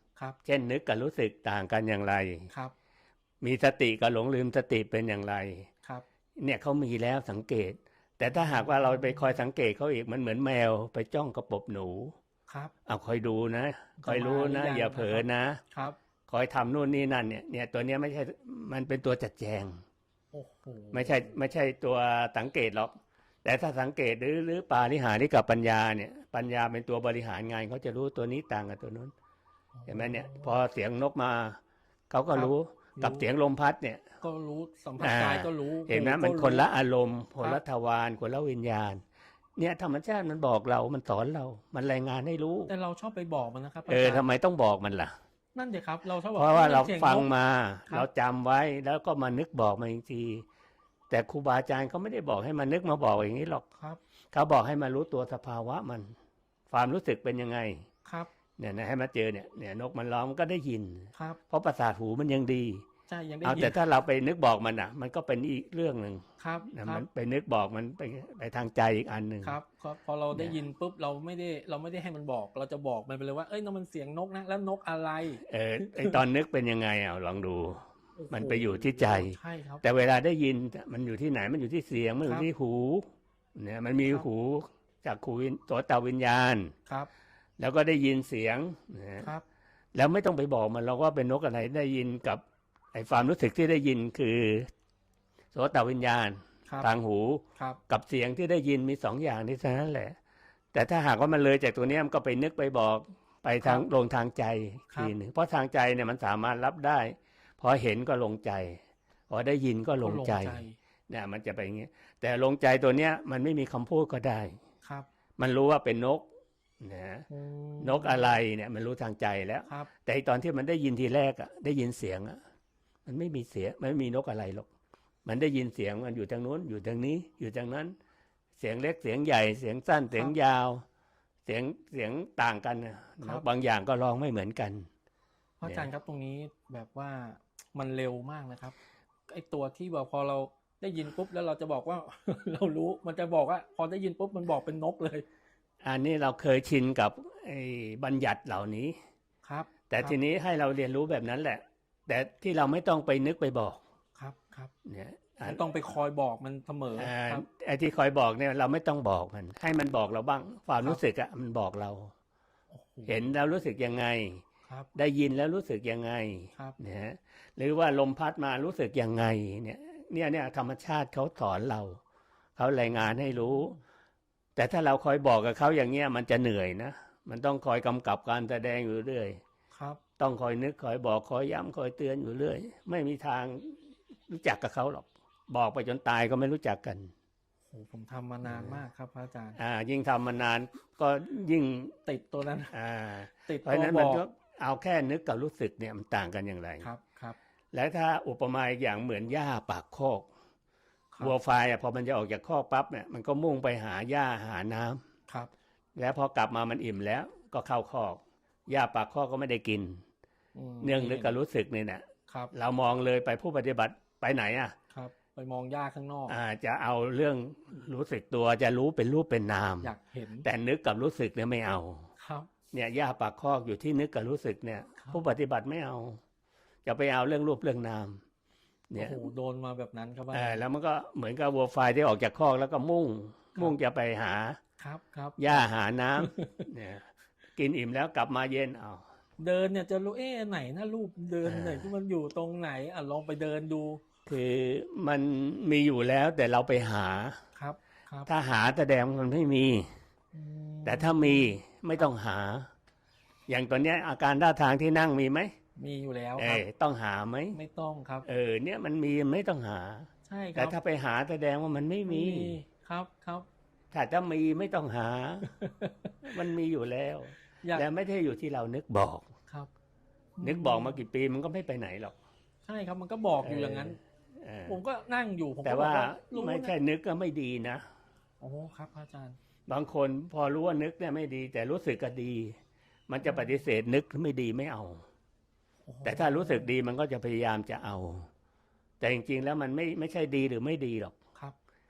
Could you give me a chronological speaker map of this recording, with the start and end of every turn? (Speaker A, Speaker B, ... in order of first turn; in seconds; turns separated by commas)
Speaker A: 0.4-2.5, Speaker A: 3.4-5.7, Speaker A: 6.4-12.2, Speaker B: 8.3-9.3, Speaker B: 12.5-12.7, Speaker A: 12.9-15.6, Speaker B: 14.0-16.0, Speaker A: 16.3-19.8, Speaker B: 20.3-21.3, Speaker A: 20.9-29.1, Speaker B: 29.8-30.5, Speaker A: 29.9-31.6, Speaker A: 32.1-34.0, Speaker B: 32.3-33.3, Speaker B: 34.2-36.7, Speaker A: 35.0-39.0, Speaker A: 39.6-42.7, Speaker B: 42.7-44.3, Speaker A: 43.9-45.1, Speaker B: 45.5-47.3, Speaker A: 46.4-50.5, Speaker A: 51.1-53.6, Speaker B: 53.8-54.0, Speaker A: 54.3-56.1, Speaker A: 56.7-57.9, Speaker B: 58.0-58.3, Speaker A: 58.6-62.9, Speaker B: 61.1-61.4, Speaker B: 63.1-63.8, Speaker A: 63.4-69.6, Speaker B: 66.4-67.1, Speaker B: 69.4-76.2, Speaker A: 70.3-70.6, Speaker A: 75.4-86.7, Speaker B: 78.2-79.8, Speaker B: 82.2-82.5, Speaker A: 87.6-89.3, Speaker A: 90.0-92.4, Speaker A: 92.9-94.7, Speaker A: 95.5-100.2, Speaker B: 96.7-96.9, Speaker A: 100.7-114.6, Speaker B: 110.0-110.8, Speaker A: 115.4-116.3, Speaker A: 116.8-117.3, Speaker B: 117.3-118.3, Speaker A: 117.8-122.4, Speaker A: 123.1-124.7, Speaker A: 125.3-127.9, Speaker A: 128.6-130.8, Speaker B: 130.1-130.4, Speaker A: 131.5-134.9, Speaker B: 135.6-138.8, Speaker A: 135.6-135.9, Speaker B: 139.3-145.2, Speaker A: 145.8-149.0, Speaker B: 149.4-150.2, Speaker A: 149.9-153.8, Speaker B: 154.2-154.7, Speaker A: 154.8-155.7, Speaker B: 155.4-157.5, Speaker A: 157.0-162.1, Speaker B: 162.7-163.2, Speaker A: 163.1-172.0, Speaker B: 164.7-164.9, Speaker A: 172.6-173.8, Speaker B: 172.9-173.8, Speaker A: 174.6-179.4, Speaker B: 179.7-180.0, Speaker A: 180.2-183.8, Speaker A: 184.3-187.1, Speaker B: 187.7-189.6, Speaker A: 188.4-188.8, Speaker A: 189.6-192.0, Speaker B: 192.1-192.7, Speaker A: 192.7-196.9, Speaker B: 193.5-194.2, Speaker B: 196.8-197.4, Speaker A: 197.7-200.3, Speaker A: 201.2-205.0, Speaker A: 206.0-210.0, Speaker B: 210.6-211.3, Speaker A: 210.8-214.8, Speaker B: 212.3-212.5, Speaker B: 214.9-216.4, Speaker A: 216.3-219.9, Speaker B: 219.8-220.5, Speaker A: 220.4-222.1, Speaker B: 222.2-222.5, Speaker A: 222.7-226.2, Speaker A: 226.8-228.2, Speaker A: 228.9-229.3, Speaker B: 229.0-230.6, Speaker A: 230.3-234.6, Speaker B: 234.8-235.7, Speaker A: 235.4-239.0, Speaker B: 236.2-236.6, Speaker B: 239.4-244.0, Speaker A: 241.4-241.9, Speaker A: 244.3-247.4, Speaker B: 247.6-248.3, Speaker A: 248.3-249.9, Speaker B: 250.3-252.0, Speaker A: 250.8-252.7, Speaker A: 253.5-255.5, Speaker B: 255.8-256.6, Speaker A: 256.4-257.6, Speaker B: 257.5-258.2, Speaker A: 258.2-262.6, Speaker B: 260.3-260.8, Speaker B: 262.1-263.5, Speaker A: 263.9-265.5, Speaker B: 265.4-266.2, Speaker A: 266.2-269.3, Speaker B: 270.4-271.0, Speaker A: 270.4-272.1, Speaker B: 272.7-274.0, Speaker A: 273.4-274.8, Speaker B: 274.7-276.7, Speaker A: 275.6-277.8, Speaker B: 278.4-279.4, Speaker A: 279.7-282.6, Speaker A: 283.1-285.1, Speaker B: 285.9-286.7, Speaker A: 286.0-288.3, Speaker A: 289.0-291.1